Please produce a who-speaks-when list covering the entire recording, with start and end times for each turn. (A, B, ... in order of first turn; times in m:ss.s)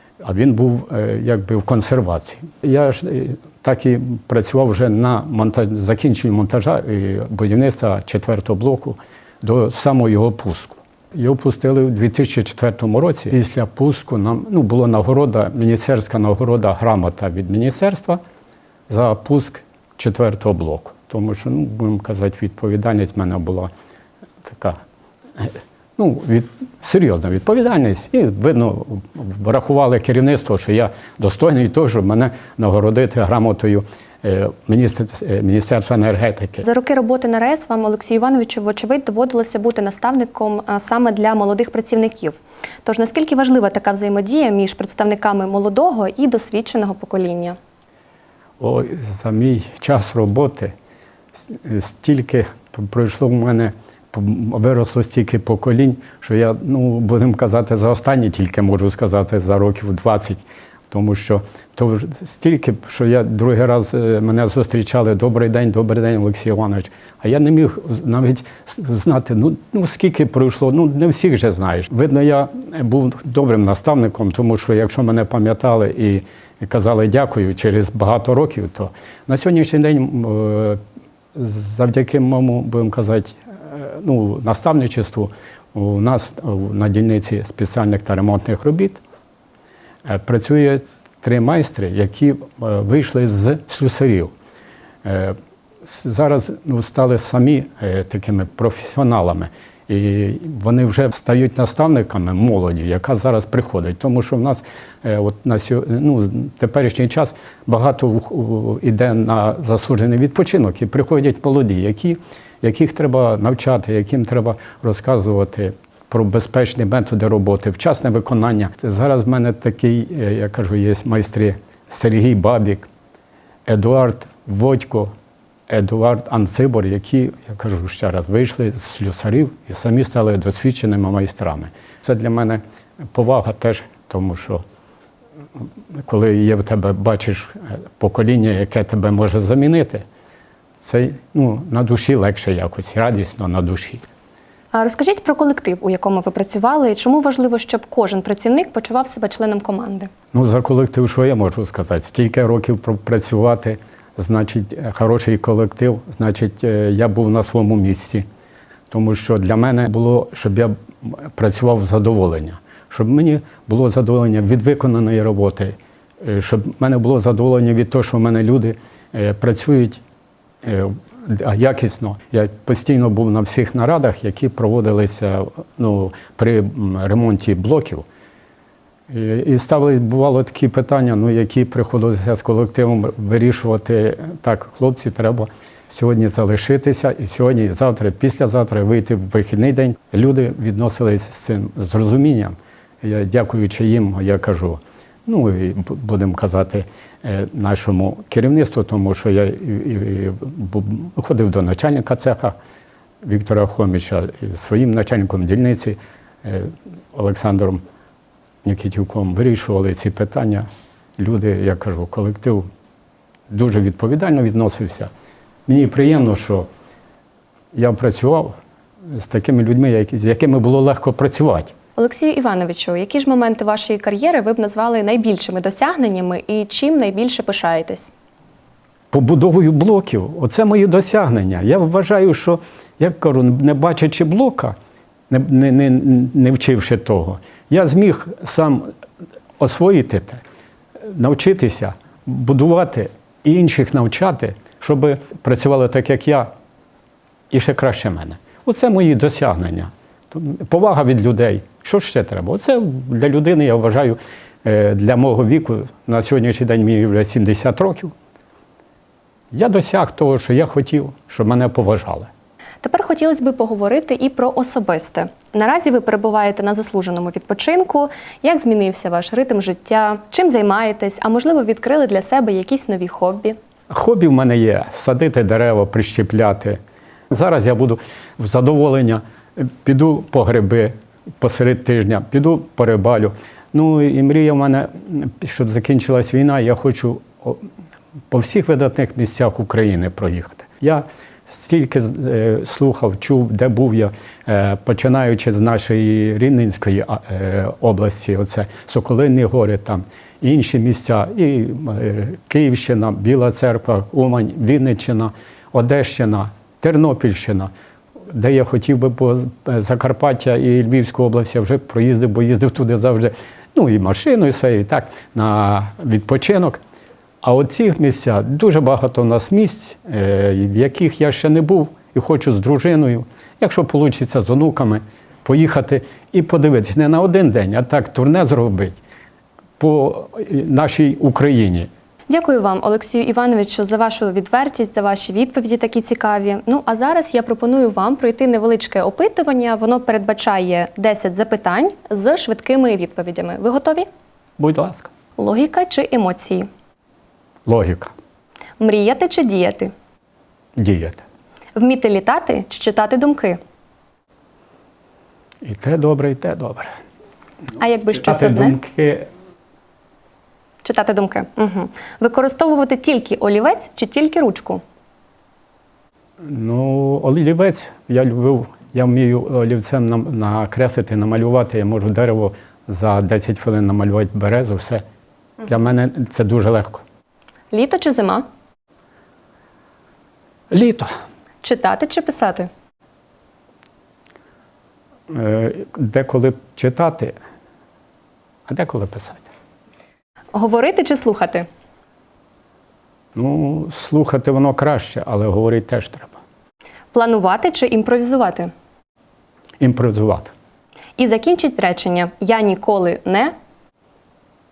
0:00.2-0:18.2 A
0:18.9-0:23.7 A
0:24.4-0:24.8 A
0:25.4-0:36.6 A
0:36.6-0:47.6 B
0:48.6-0:50.7 A
0:51.4-1:20.8 A
1:21.3-1:29.0 A
1:30.0-1:34.3 A
1:35.0-2:02.9 A
2:03.7-2:05.1 A
2:05.7-2:12.6 A
2:13.1-2:14.6 A
2:16.0-2:20.0 A
2:20.8-2:24.0 A
2:24.7-2:30.1 B
2:30.3-2:38.2 A
2:38.9-2:50.0 A
2:50.6-2:58.0 A
2:59.1-3:22.6 A
3:23.2-3:27.8 A
3:28.6-3:30.6 A
3:31.2-3:32.6 A
3:33.5-3:35.1 A
3:35.7-3:36.7 A
3:37.7-3:38.5 A
3:39.1-3:41.7 A
3:42.0-3:48.1 B
3:49.1-3:54.7 A
3:55.3-3:58.9 A
3:59.6-4:00.4 A
4:01.0-4:06.5 A
4:07.5-4:18.1 A
4:19.5-4:22.3 A
4:22.8-4:33.6 B
4:33.9-4:36.8 A
4:37.3-4:47.6 A
4:48.3-5:07.7 A
5:08.3-5:16.8 A
5:17.4-5:29.0 A
5:29.8-5:31.9 A
5:32.3-5:44.0 B
5:44.6-5:45.1 A
5:45.4-5:46.7 B
5:47.7-5:48.1 A
5:48.8-5:49.9 B
5:50.8-5:51.2 A
5:51.8-5:53.6 B
5:55.6-5:56.9 A
5:57.8-5:58.8 B
5:58.1-5:59.3 A
6:00.8-6:04.8 B
6:06.4-6:15.0 A
6:15.6-6:17.0 A
6:17.7-6:18.4 B
6:20.7-6:21.1 A
6:21.6-6:22.7 B
6:25.3-6:27.3 A
6:28.7-6:29.5 A
6:30.5-6:31.7 B
6:33.3-6:36.4 A
6:37.1-6:38.7 B
6:39.8-6:40.5 A
6:41.2-6:43.5 B